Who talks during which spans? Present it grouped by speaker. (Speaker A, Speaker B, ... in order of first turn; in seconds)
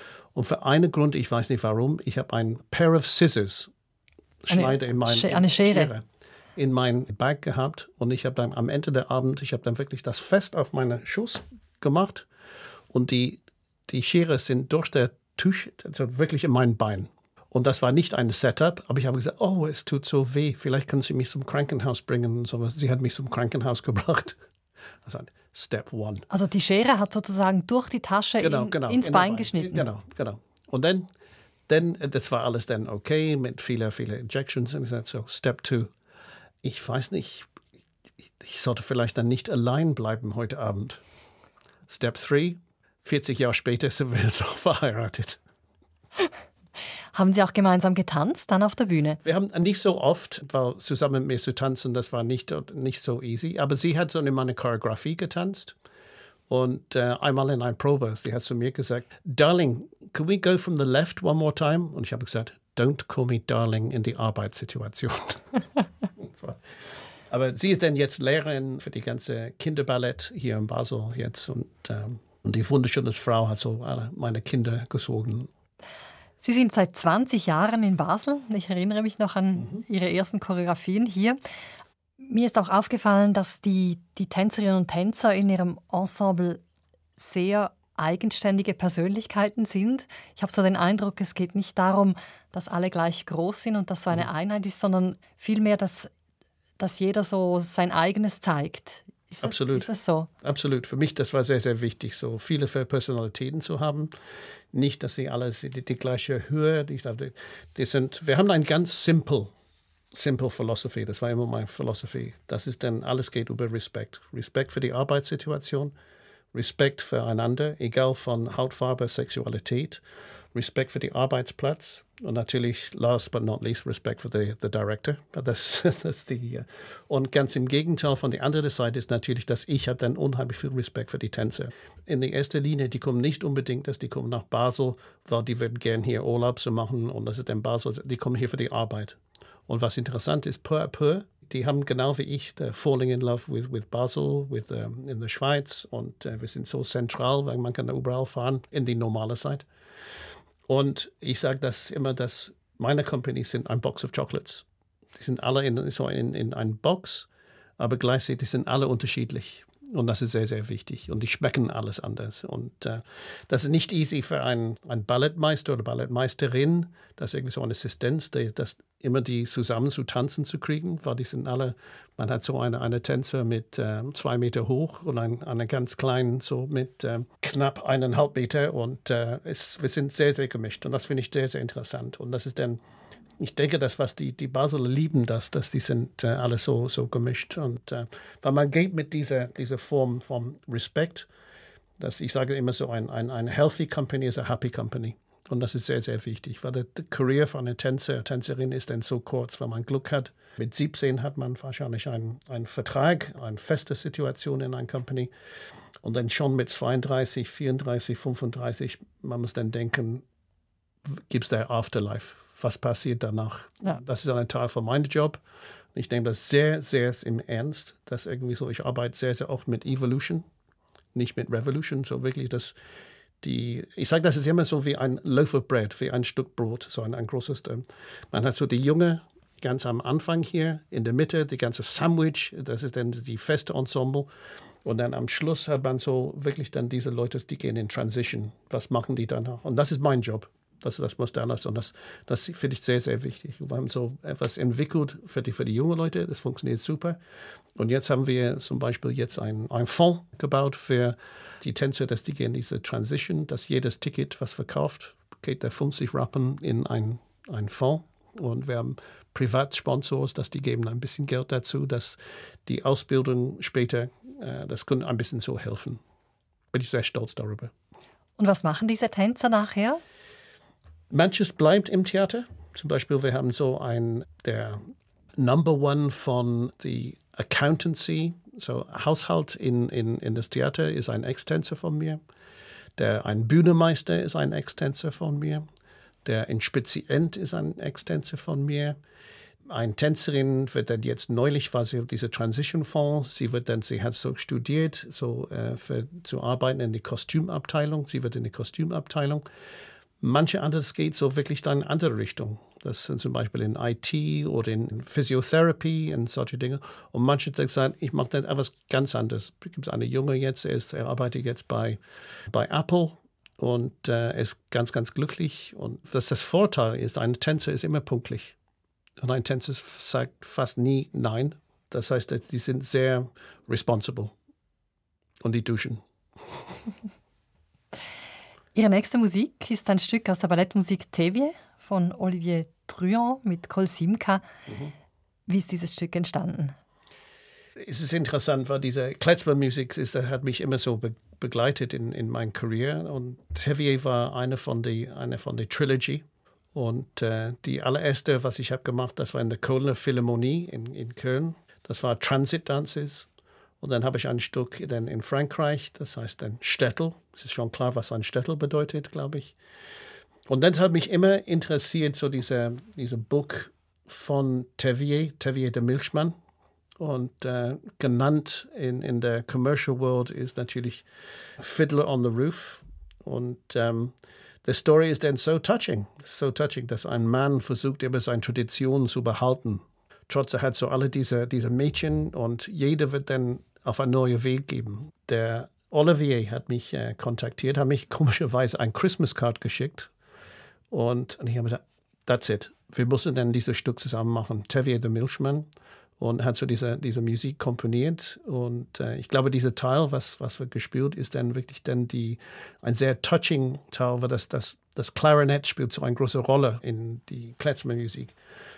Speaker A: 0.3-3.7, 4.4-6.0, 6.5-12.3, 12.9-24.4, 25.0-26.2, 28.4-31.1, 31.7-35.9, 36.6-37.5, 38.4-41.0, 41.9-45.4, 49.2-55.7, 56.5-65.6, 66.2-75.5, 99.4-104.1, 104.7-109.5, 110.1-115.9, 116.5-120.0, 120.5-149.7, 150.7-154.6, 155.2-157.3, 157.8-182.8, 183.4-191.3, 192.0-205.3, 206.0-210.2, 211.1-215.4, 215.9-220.4, 221.1-222.7, 223.4-234.3, 234.8-247.2, 247.8-266.0, 266.7-267.7, 271.1-274.8, 275.4-282.2, 282.9-285.6, 286.2-289.0, 289.7-299.4, 300.2-318.5, 319.2-324.3, 325.4-326.0, 334.7-334.9, 337.8-353.3, 353.8-359.5, 360.5-366.3, 367.0-390.1, 390.9-395.7, 396.2-408.3
Speaker B: 4.5-5.9, 26.3-29.8, 47.1-49.2, 76.4-81.4, 82.2-86.6, 87.2-96.1, 96.8-100.3, 268.4-270.0, 328.7-334.4, 335.5-336.7